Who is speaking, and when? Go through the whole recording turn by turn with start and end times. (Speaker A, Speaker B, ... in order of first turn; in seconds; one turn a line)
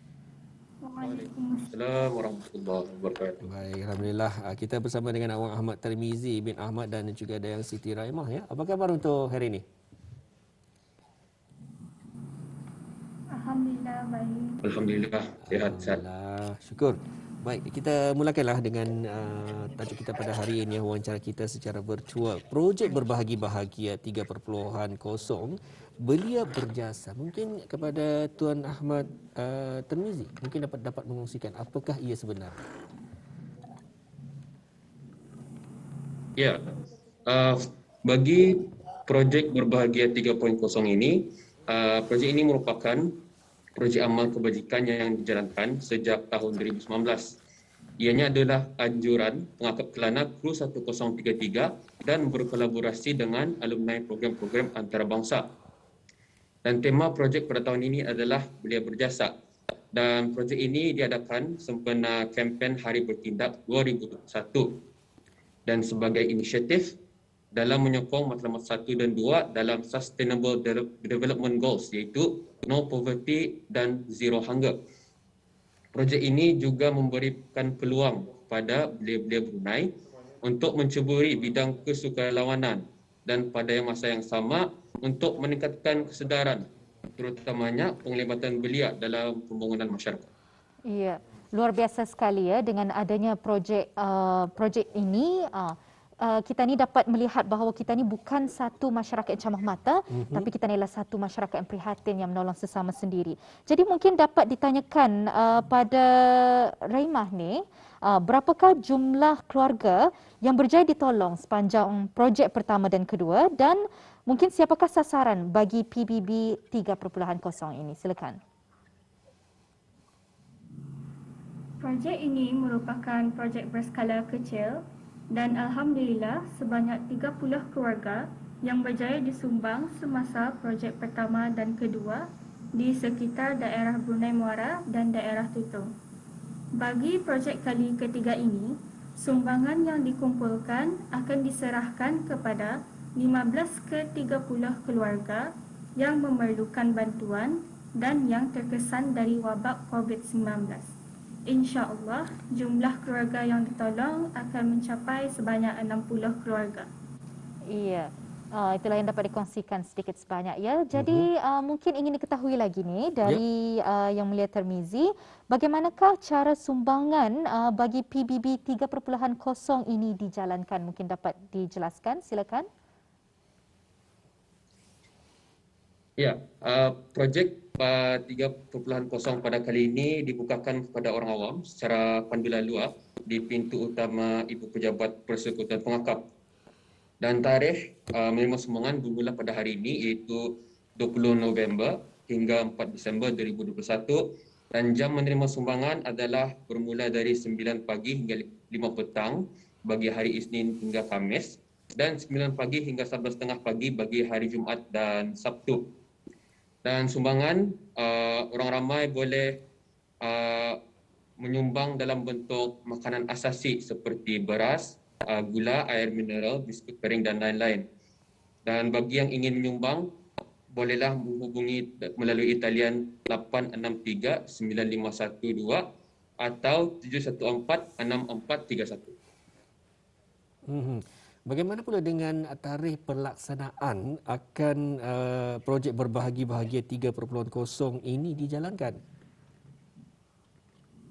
Speaker A: 0.8-1.7
Speaker B: 1.0-3.4
Speaker C: 3.4-9.6
Speaker A: 13.3-14.6
Speaker B: 14.6-16.0
Speaker C: 15.5-32.6
Speaker B: 37.3-43.1
Speaker B: 43.8-47.4
Speaker B: 48.0-55.5
Speaker B: 56.6-59.3
Speaker B: 59.9-64.8
Speaker B: 65.7-66.9
Speaker B: 67.5-74.8
Speaker B: 75.9-90.3
Speaker D: 90.9-118.4
Speaker C: 100.1-100.5
Speaker A: 121.8-132.2
Speaker A: 132.8-135.9
Speaker A: 136.8-150.9
Speaker A: 151.5-156.9
Speaker D: 157.7-172.7
Speaker C: 160.9-161.3
Speaker B: 176.2-186.2
Speaker B: 187.2-205.8
Speaker B: 206.8-209.6
Speaker B: 210.2-210.8
Speaker B: 211.4-217.8
Speaker B: 218.7-220.1
Speaker B: 220.7-225.8
Speaker B: 226.4-229.1
Speaker C: 230.7-239.0